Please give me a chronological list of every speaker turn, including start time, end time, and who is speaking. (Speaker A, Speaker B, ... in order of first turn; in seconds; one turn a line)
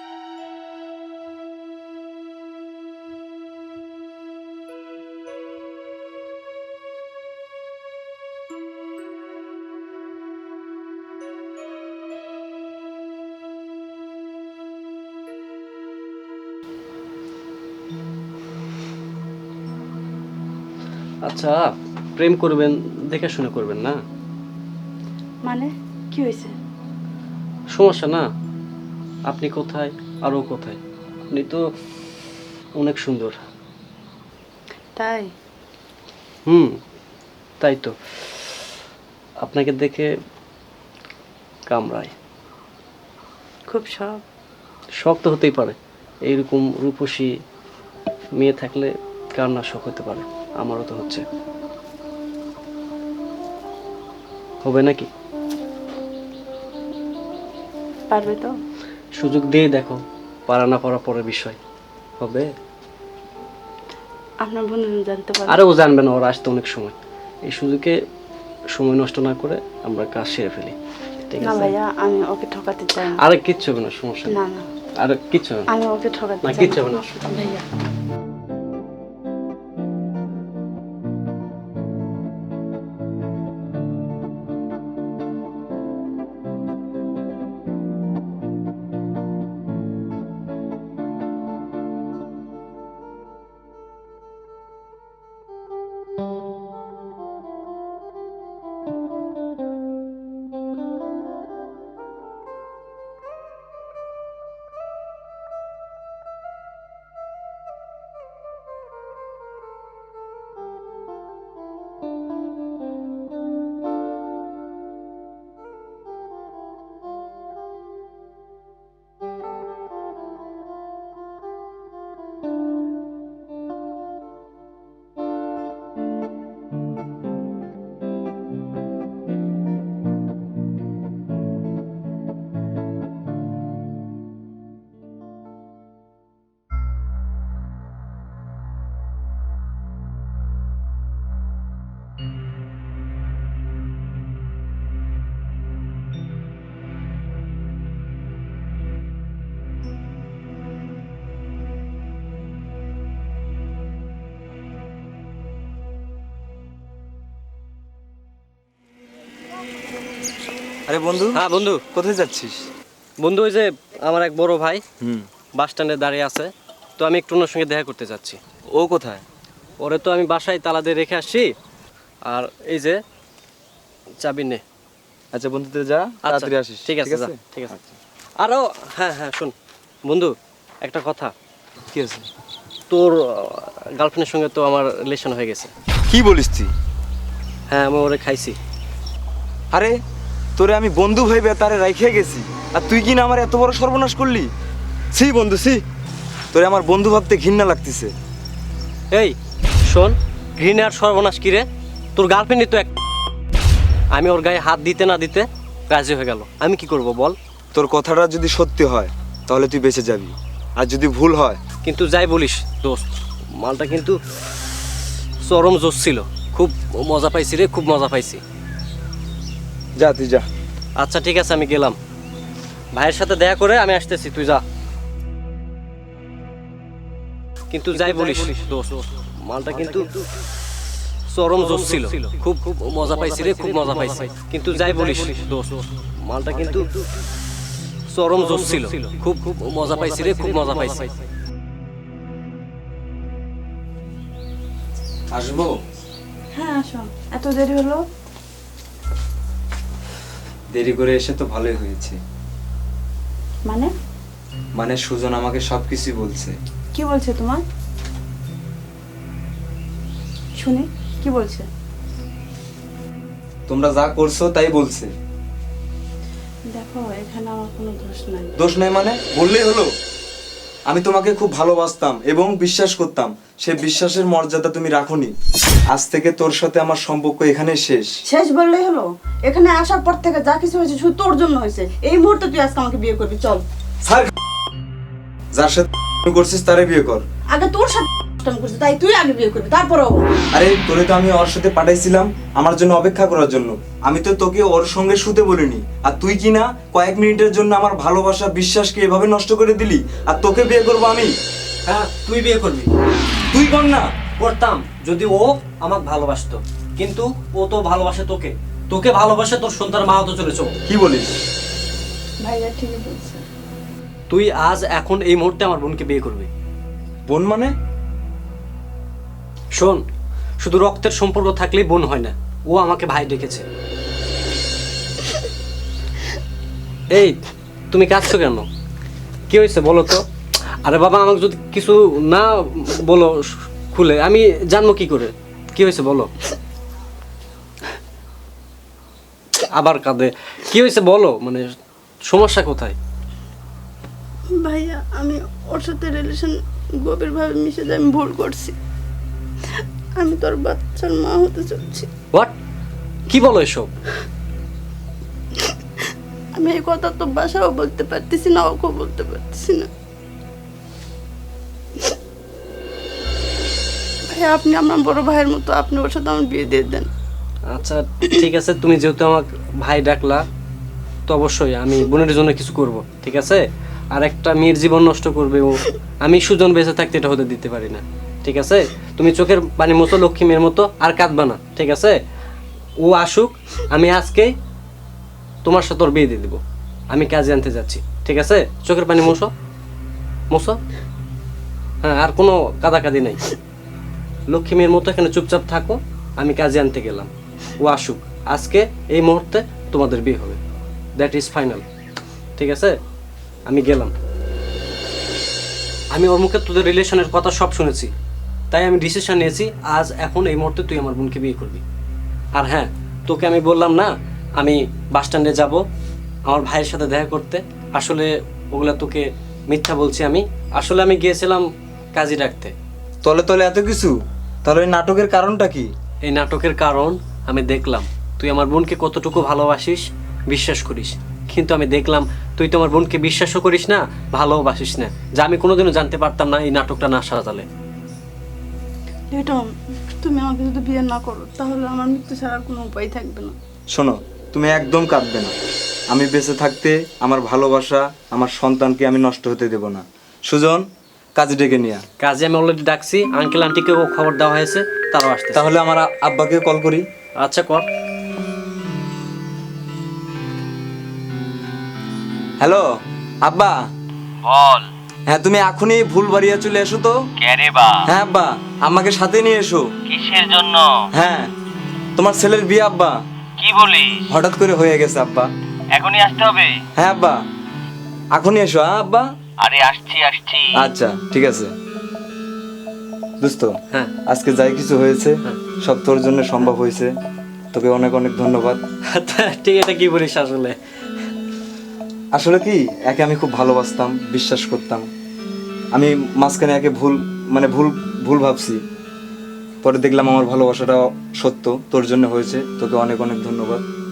Speaker A: 21.2-24.0
Speaker B: 25.4-26.5
Speaker A: 27.7-28.3
Speaker A: 29.3-30.8
Speaker A: 31.3-31.7
Speaker A: 32.8-33.4
Speaker B: 35.0-35.3
Speaker A: 36.5-36.8
Speaker A: 37.6-38.0
Speaker A: 39.4-40.1
Speaker A: 41.7-42.1
Speaker B: 43.7-44.2
Speaker A: 45.0-47.3
Speaker A: 48.4-51.2
Speaker A: 54.6-55.1
Speaker B: 58.1-58.5
Speaker A: 59.2-61.6
Speaker A: 62.2-62.5
Speaker B: 64.4-65.6
Speaker A: 65.5-68.0
Speaker A: 68.7-70.8
Speaker A: 71.3-71.7
Speaker B: 71.4-73.2
Speaker A: 73.2-74.4
Speaker B: 74.3-74.7
Speaker A: 75.0-75.7
Speaker B: 75.7-77.7
Speaker A: 76.4-77.2
Speaker C: 160.9-161.4
Speaker A: 161.3-161.8
Speaker C: 161.9-162.7
Speaker A: 163.2-164.8
Speaker C: 165.0-165.2
Speaker A: 165.6-168.4
Speaker C: 168.7-169.2
Speaker A: 169.8-171.5
Speaker A: 172.3-173.0
Speaker A: 174.2-174.6
Speaker C: 175.3-178.0
Speaker A: 176.2-177.7
Speaker A: 178.4-179.5
Speaker A: 180.1-181.3
Speaker C: 181.9-182.2
Speaker A: 182.9-185.7
Speaker C: 186.1-186.7
Speaker A: 187.7-188.6
Speaker C: 190.6-194.5
Speaker C: 195.1-195.8
Speaker C: 196.5-198.1
Speaker A: 199.1-202.9
Speaker A: 204.1-207.3
Speaker C: 207.7-211.6
Speaker A: 211.8-214.2
Speaker A: 215.4-218.4
Speaker C: 220.0-220.4
Speaker A: 221.0-221.9
Speaker A: 222.9-224.6
Speaker A: 227.7-230.2
Speaker A: 231.3-237.0
Speaker A: 238.1-241.2
Speaker C: 245.3-245.7
Speaker B: 246.5-248.0
Speaker C: 250.7-252.2
Speaker C: 254.8-256.5
Speaker B: 256.9-257.6
Speaker B: 260.6-261.7
Speaker C: 263.7-265.1
Speaker B: 266.7-268.5
Speaker C: 268.6-269.9
Speaker C: 270.9-275.3
Speaker C: 275.9-278.1
Speaker B: 278.3-283.6
Speaker C: 284.0-284.3
Speaker C: 285.5-287.2
Speaker B: 287.5-290.2
Speaker C: 290.5-301.3
Speaker A: 301.8-302.9
Speaker C: 303.5-304.1
Speaker A: 304.4-310.7
Speaker C: 310.9-311.4
Speaker B: 312.4-313.4
Speaker A: 314.3-316.5
Speaker C: 317.3-317.7
Speaker A: 319.7-320.0
Speaker A: 320.6-323.6
Speaker A: 327.1-327.4
Speaker A: 327.9-328.7
Speaker A: 329.5-330.2
Speaker A: 330.8-336.3
Speaker A: 339.6-341.6
Speaker A: 342.2-343.0
Speaker B: 344.5-348.8
Speaker B: 349.6-352.1
Speaker A: 353.3-353.9
Speaker B: 356.6-359.9
Speaker B: 364.3-367.1
Speaker A: 367.7-370.4
Speaker A: 371.3-382.2
Speaker A: 383.0-384.5
Speaker A: 385.6-386.6
Speaker A: 387.1-389.5
Speaker A: 390.5-390.8
Speaker A: 392.0-393.5
Speaker A: 394.5-397.3
Speaker A: 397.8-400.6
Speaker A: 401.2-401.8
Speaker A: 402.6-403.0
Speaker A: 403.7-404.1
Speaker A: 406.1-408.1
Speaker A: 408.7-411.8
Speaker A: 412.5-415.8
Speaker A: 416.5-422.7
Speaker C: 423.2-425.9
Speaker A: 426.2-437.6
Speaker B: 439.3-443.5
Speaker C: 443.9-445.6
Speaker C: 446.1-452.0
Speaker A: 452.2-455.6
Speaker C: 455.5-457.0
Speaker A: 457.4-457.9
Speaker C: 462.6-462.9
Speaker C: 463.4-463.8
Speaker D: 464.4-464.9
Speaker C: 465.3-467.2
Speaker D: 467.4-468.0
Speaker C: 468.1-469.8
Speaker D: 470.1-471.0
Speaker C: 471.1-471.5
Speaker C: 472.2-473.2
Speaker D: 473.6-474.2
Speaker C: 474.3-475.5
Speaker D: 475.9-476.8
Speaker C: 476.9-477.4
Speaker C: 478.3-479.3
Speaker D: 479.6-480.8
Speaker C: 480.8-481.7
Speaker C: 483.4-483.7
Speaker C: 484.2-487.1
Speaker C: 487.7-488.8
Speaker A: 489.1-490.8
Speaker C: 492.3-495.0
Speaker C: 495.9-498.8
Speaker C: 499.8-503.8